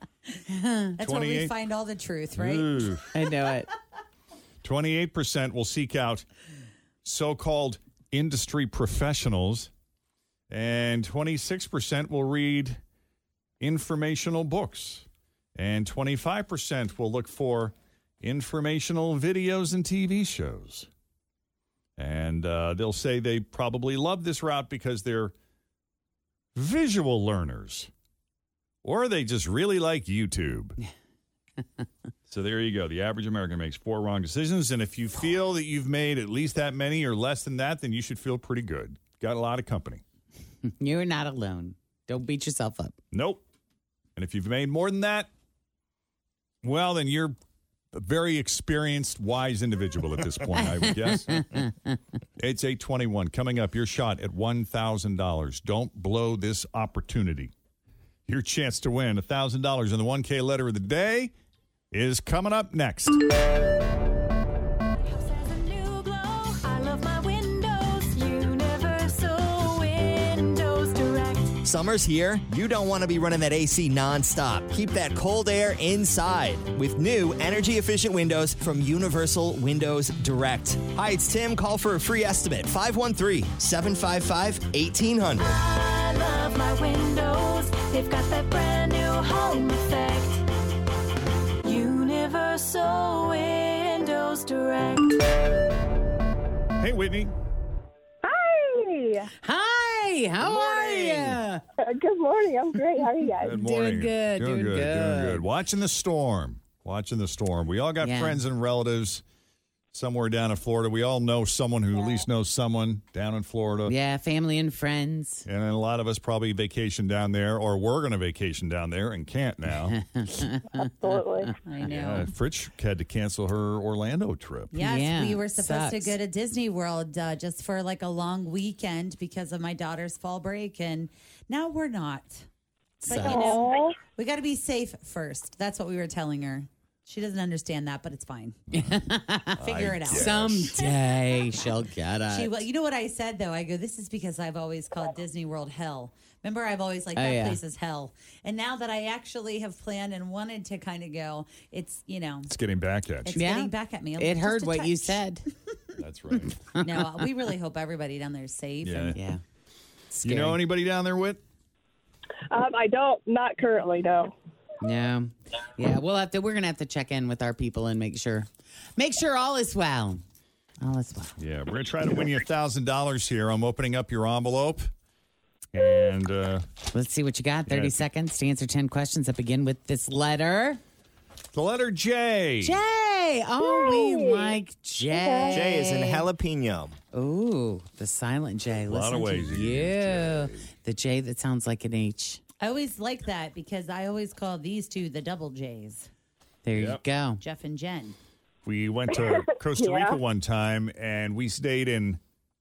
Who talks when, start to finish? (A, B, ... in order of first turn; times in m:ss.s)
0:00.4-0:01.0 A
0:01.0-0:02.7 B
0:01.0-0:01.5 C
0:02.4-0:03.1 C
0:03.1-0:03.7 A
0:04.6-0:06.2 C
0:07.0-0:09.7 C
0:10.5-0:12.8 C
0:13.6-0:20.9 C
0:22.0-0:25.3 C
0:26.5-0:27.9 C
0:28.8-0:30.8 C
0:32.3-0:40.0 C
0:40.6-0:42.9 A
0:43.1-0:43.4 C
0:44.2-0:45.3 C
0:46.6-0:47.3 C
0:47.9-0:51.7 C
0:51.3-0:51.7 A
0:52.4-0:57.5 C
0:58.2-1:01.3 C
1:01.9-1:03.2 C
1:05.0-1:11.5 D
1:11.6-1:25.6 E
1:25.4-1:30.4 D
1:31.6-1:35.2 D
1:36.8-1:37.3 C
1:39.4-1:41.6 A
1:40.4-1:41.4 C
1:42.0-1:42.9 F
1:42.9-1:45.4 A
1:43.4-1:49.2 C
1:48.0-1:48.4 A
1:49.9-1:53.9 C
1:53.9-1:55.4 A
1:55.4-2:00.0 C
1:59.9-2:01.5 A
2:01.6-2:02.3 B
2:01.8-2:04.7 C
2:04.7-2:12.5 B
2:04.7-2:06.2 A
2:13.0-2:13.5 A
2:13.1-2:18.6 B
2:13.4-2:13.8 F
2:18.9-2:19.6 A
2:19.6-2:20.7 C
2:19.6-2:32.5 B
2:20.2-2:22.6 A
2:27.1-2:27.6 A
2:32.5-2:33.4 C
2:33.2-2:35.2 B
2:33.3-2:35.4 A
2:36.0-2:36.5 C
2:36.5-2:37.0 A
2:36.8-2:39.2 B
2:38.8-2:39.2 C
2:39.1-2:39.4 A
2:40.1-2:40.6 A
2:40.2-2:41.4 C
2:42.5-2:44.3 F
2:44.8-2:50.2 A
2:50.8-2:51.3 A
2:51.4-2:54.9 C
2:55.7-2:56.6 C
2:56.9-3:00.8 A
2:57.7-2:58.0 C
3:01.5-3:02.8 C
3:02.6-3:05.9 A
3:05.5-3:07.0 E
3:07.1-3:12.4 A
3:08.8-3:10.7 C
3:12.6-3:16.1 B
3:16.6-3:17.4 A
3:16.7-3:17.0 C
3:17.4-3:18.2 B
3:18.6-3:22.2 C